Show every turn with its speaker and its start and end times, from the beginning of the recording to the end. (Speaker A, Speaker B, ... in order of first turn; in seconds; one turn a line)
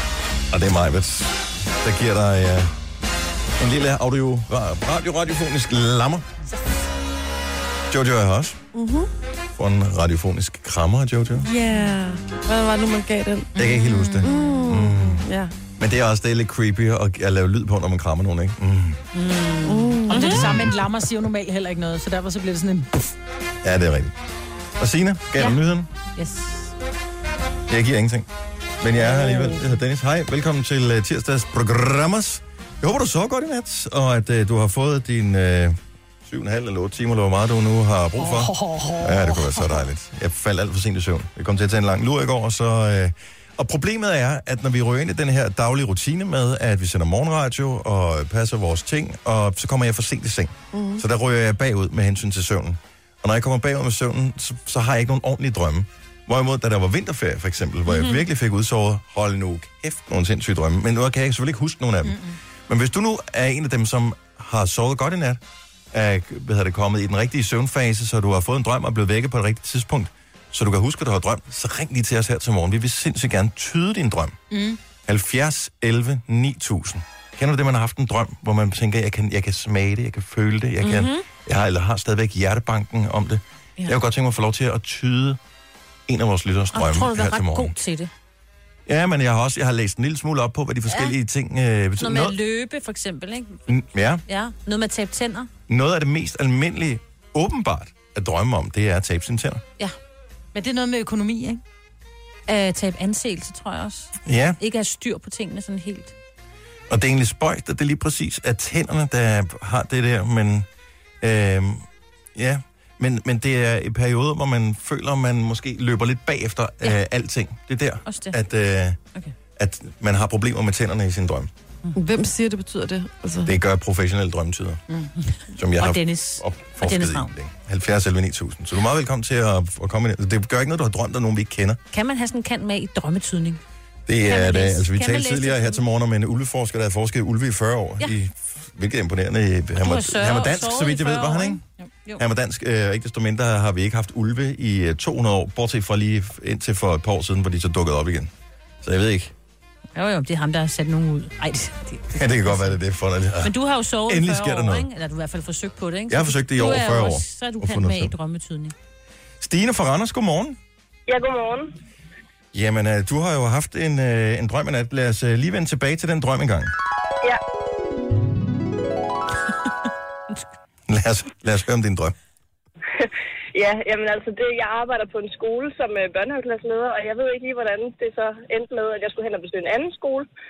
Speaker A: 0.5-2.7
Speaker A: 3.6-6.2
Speaker A: 7.9-8.6
Speaker B: 8.7-9.1
Speaker A: 9.6-11.5
Speaker B: 11.4-13.5
Speaker A: 13.6-15.3
Speaker C: 13.6-14.2
Speaker B: 14.2-15.5
Speaker A: 15.8-19.0
Speaker C: 19.1-20.5
Speaker B: 19.6-20.4
Speaker D: 20.1-23.1
Speaker A: 20.2-20.8
Speaker A: 23.6-24.1
Speaker A: 24.8-25.9
Speaker C: 26.1-26.7
Speaker A: 27.7-28.3
Speaker A: 28.8-65.4
Speaker B: 50.7-51.0
Speaker C: 57.9-58.2
Speaker D: 62.1-62.4
Speaker A: 65.9-74.4
Speaker D: 74.5-74.8
Speaker A: 75.0-85.4
Speaker C: 80.8-81.2
Speaker A: 86.1-87.8
Speaker C: 86.7-88.1
Speaker A: 88.8-92.3
Speaker C: 90.9-91.1
Speaker C: 92.0-93.6
Speaker A: 93.7-94.2
Speaker C: 94.3-95.5
Speaker A: 95.7-99.6
Speaker D: 100.5-101.6
Speaker C: 102.5-106.1
Speaker A: 104.2-104.6
Speaker A: 106.9-110.7
Speaker A: 111.2-119.0
Speaker C: 118.0-118.3
Speaker A: 119.5-121.5
Speaker B: 121.9-123.5
Speaker A: 123.4-124.8
Speaker C: 125.3-127.3
Speaker A: 125.5-131.8
Speaker C: 131.9-133.6
Speaker A: 134.1-141.6
Speaker C: 134.2-135.8
Speaker C: 139.8-142.2
Speaker A: 142.2-148.3
Speaker A: 148.8-149.3
Speaker C: 149.9-152.7
Speaker A: 152.1-153.5
Speaker C: 153.4-158.7
Speaker A: 154.0-154.9
Speaker A: 156.1-158.1
Speaker A: 159.4-160.6
Speaker E: 161.1-161.7
Speaker A: 162.5-166.7
Speaker A: 170.9-172.1
Speaker E: 172.9-180.3